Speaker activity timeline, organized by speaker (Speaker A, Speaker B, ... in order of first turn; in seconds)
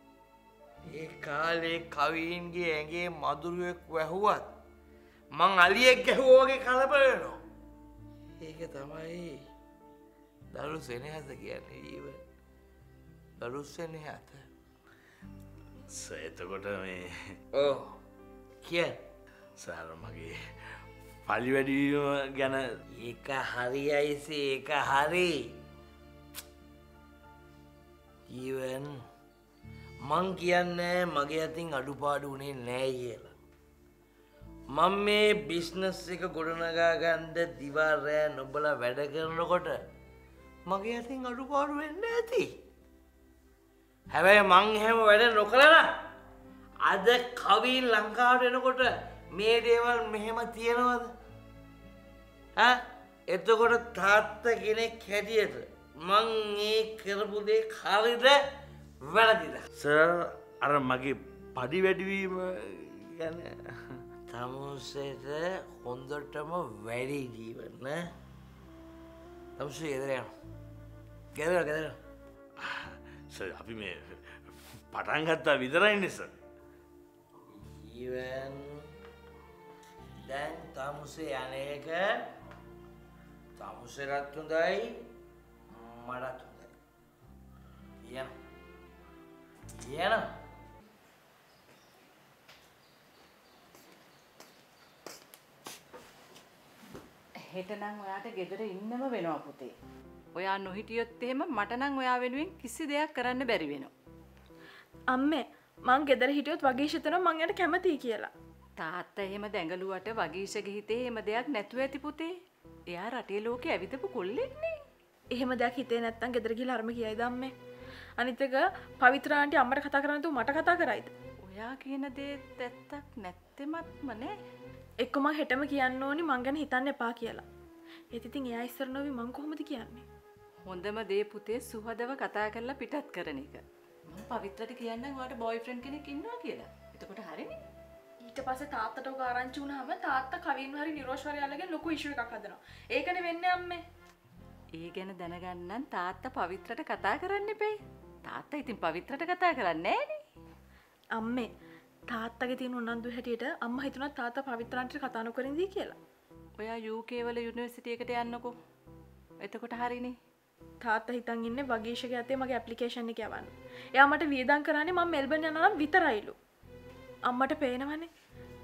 Speaker A: 0.8-4.6, 5.3-7.4, 8.4-9.5, 10.5-12.2, 13.4-14.5, 17.5-18.0, 18.6-19.0, 22.9-25.6, 28.3-29.0, 30.0-33.3, 34.7-39.8, 40.7-42.5, 44.1-45.9, 46.8-51.1, 52.6-58.4, 59.0-59.7, 64.3-68.1, 69.6-70.3, 71.3-72.0, 77.5-78.9, 80.2-82.3, 83.6-85.1, 85.7-86.7, 88.0-88.3, 89.8-90.3
Speaker B: 15.9-17.4, 19.6-20.4, 21.3-22.6, 59.8-64.0, 72.6-76.3
Speaker C: 97.5-99.7, 100.3-103.9, 108.8-112.3, 112.9-114.8, 121.5-124.3, 130.6-137.6, 144.8-150.2, 156.6-158.5, 159.4-160.2
Speaker D: 105.1-108.3, 115.3-117.5, 118.2-121.1, 125.0-127.5, 128.1-130.1, 138.2-143.8, 151.2-151.5, 152.1-156.0, 160.8-166.3, 167.3-168.1